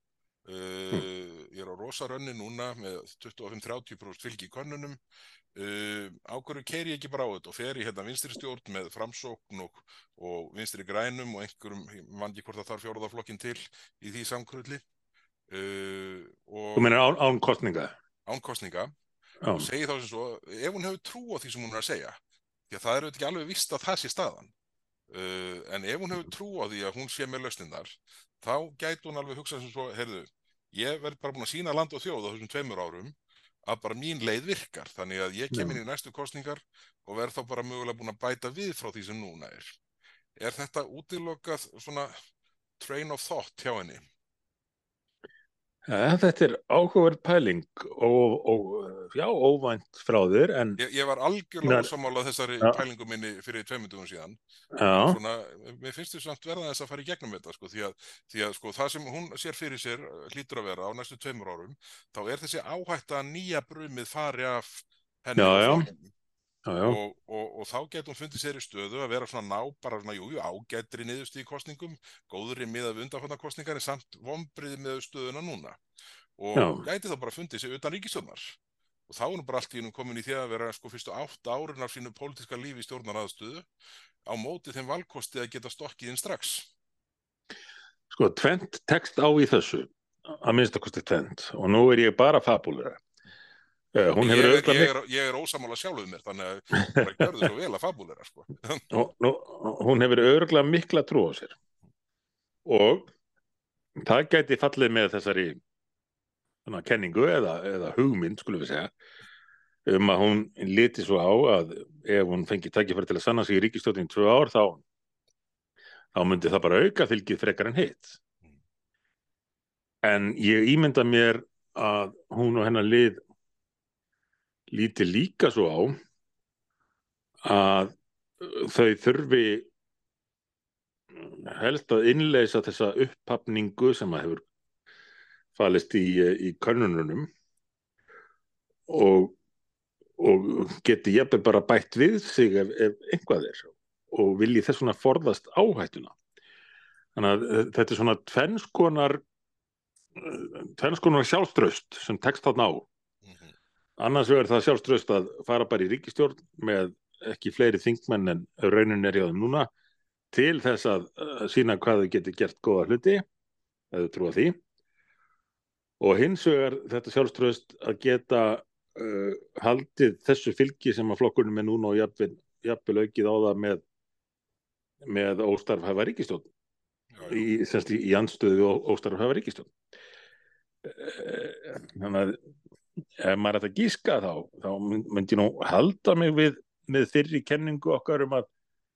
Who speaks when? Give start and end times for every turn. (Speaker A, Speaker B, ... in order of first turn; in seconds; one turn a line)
Speaker A: 0.4-5.0
Speaker A: 5.5-14.8
Speaker A: 15.5-16.9
Speaker B: 16.8-17.9
Speaker A: 18.2-18.9
Speaker B: 19.4-19.7
Speaker A: 19.6-22.2
Speaker A: 22.7-24.5
Speaker A: 25.1-33.1
Speaker A: 33.6-39.8
Speaker B: 35.5-35.8
Speaker A: 40.4-42.1
Speaker A: 42.8-44.0
Speaker B: 45.9-50.8
Speaker A: 50.8-54.4
Speaker B: 51.6-51.9
Speaker B: 54.7-55.2
Speaker A: 54.9-66.1
Speaker B: 65.4-65.9
Speaker B: 66.7-67.0
Speaker A: 66.8-75.8
Speaker A: 76.4-78.6
Speaker B: 76.5-76.8
Speaker A: 79.1-83.7
Speaker A: 84.2-86.7
Speaker B: 88.1-93.0
Speaker B: 93.9-94.9
Speaker A: 94.2-98.9
Speaker B: 96.8-97.4
Speaker B: 98.9-101.5
Speaker B: 102.7-103.1
Speaker B: 104.0-105.6
Speaker B: 106.7-108.9
Speaker B: 109.8-114.8
Speaker B: 116.1-118.2
Speaker B: 120.0-123.2
Speaker B: 124.7-126.0
Speaker B: 127.4-129.7
Speaker B: 131.2-134.4
Speaker B: 135.5-137.3
Speaker B: 138.9-139.3
Speaker B: 140.2-146.1
Speaker B: 147.2-149.2
Speaker B: 150.2-152.9
Speaker A: 153.2-153.6
Speaker B: 154.0-159.7
Speaker B: 160.3-163.2
Speaker B: 163.9-164.5
Speaker B: 166.0-173.8
Speaker B: 175.1-176.5
Speaker A: 177.1-177.4
Speaker B: 177.2-179.7
Speaker B: 180.8-182.4
Speaker B: 183.2-188.5